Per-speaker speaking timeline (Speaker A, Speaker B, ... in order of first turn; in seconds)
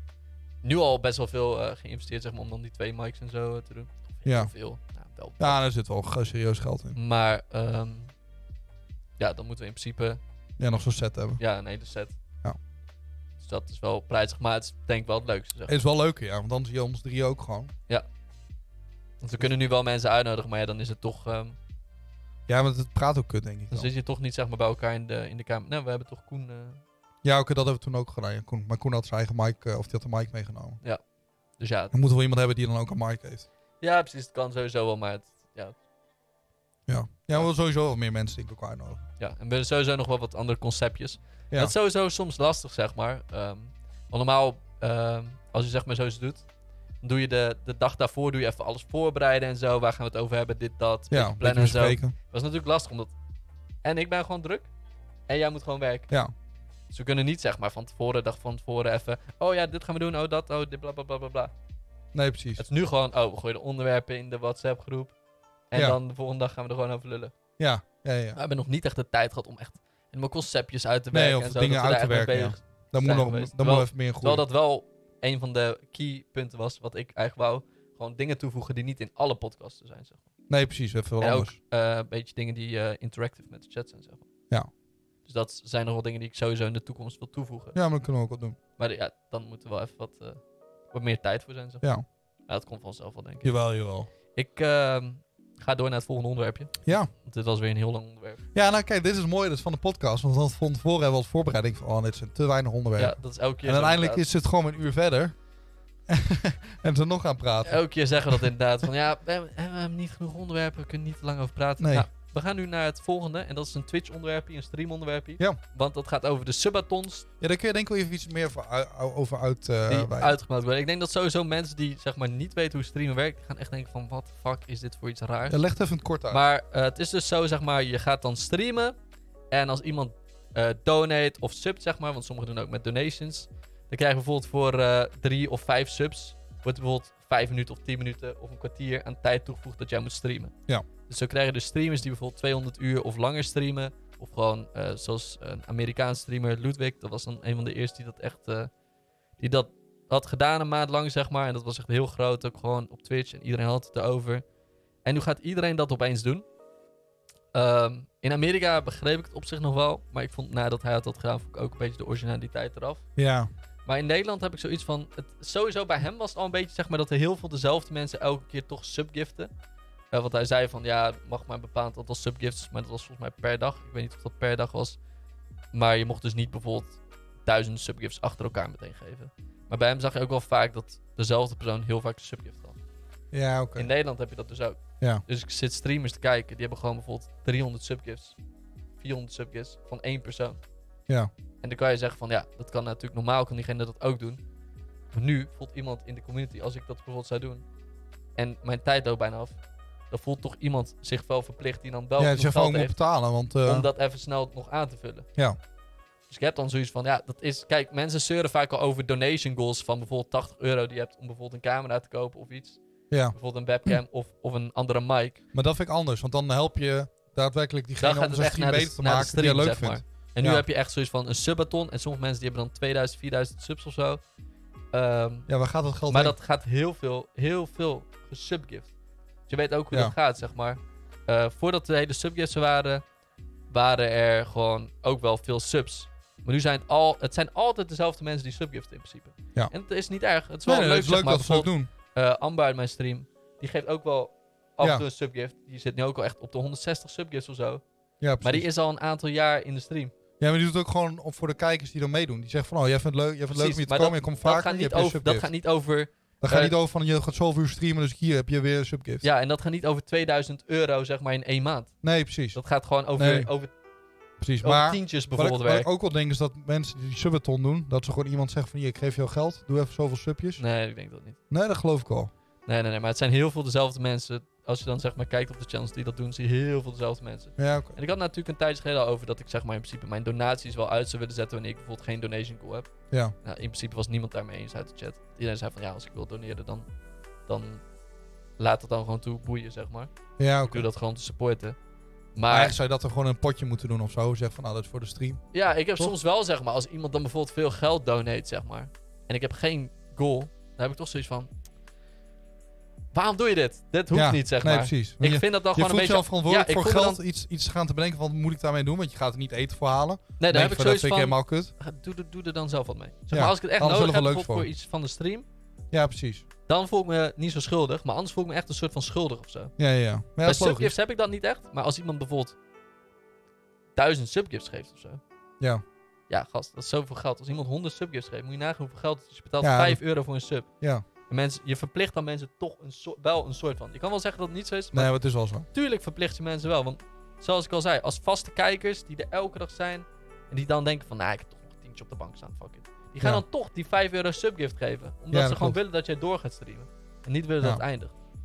Speaker A: 0.6-5.6, 6.9-8.1, 9.2-10.2, 11.4-12.2, 13.4-15.8, 19.2-21.6, 23.7-26.8, 31.6-31.9, 33.8-35.7, 39.2-46.4, 47.0-53.1, 53.8-54.7, 55.3-56.1, 56.9-61.5, 62.6-65.1, 65.7-67.3, 68.3-80.2, 81.2-84.3, 85.2-87.8, 88.8-90.4, 90.9-91.8, 92.5-93.5, 94.3-98.4, 103.0-104.2, 107.6-117.3, 119.9-125.6, 126.3-128.9, 129.5-140.5, 141.1-148.7, 149.4-154.4, 155.0-156.4, 157.5-163.0, 163.8-169.5, 170.1-175.0, 175.7-182.8, 183.8-188.3, 189.0-190.6, 191.6-194.4, 195.1-197.6, 198.4-199.6, 200.1-202.9, 203.6-205.3, 206.3-212.8, 213.3-215.4, 218.0-224.2, 224.9-225.5, 226.1-228.9, 229.5-233.0, 233.7-247.8, 248.4-250.1, 253.5-256.7, 259.2-261.9, 262.5-263.7, 264.6-265.9, 270.6-271.4, 272.6-282.9, 283.4-286.9, 287.5-287.8, 288.6-290.1, 290.6-291.8, 292.3-292.8, 295.5-301.5, 303.1-307.2, 310.4-315.4, 316.7-319.7, 320.4-322.6, 323.9-325.2, 326.3-330.7, 331.3-335.1, 335.7-348.1
Speaker B: 4.2-4.5, 5.4-7.0, 10.6-11.4, 15.7-17.7, 22.5-23.9, 27.2-30.8, 31.9-33.5, 36.9-39.0, 51.1-52.1, 62.1-62.6, 67.6-68.4, 71.1-74.4, 80.5-81.5, 87.7-88.6, 93.4-94.1, 98.5-105.3, 106.1-108.5, 111.8-112.1, 117.4-120.3, 125.5-126.4, 163.2-163.5, 183.3-183.9, 202.2-203.9, 215.5-220.6, 225.5-226.3, 240.6-241.9, 244.8-245.1, 248.2-248.7, 250.4-255.5, 256.4-259.2, 262.0-262.6, 263.1-263.5, 264.4-270.6, 271.5-272.3, 277.6-277.9, 290.4-290.9, 292.5-295.4, 304.1-311.7, 313.3-314.7, 315.9-316.4, 319.8-320.9, 329.6-330.0, 334.9-335.6, 345.3-345.8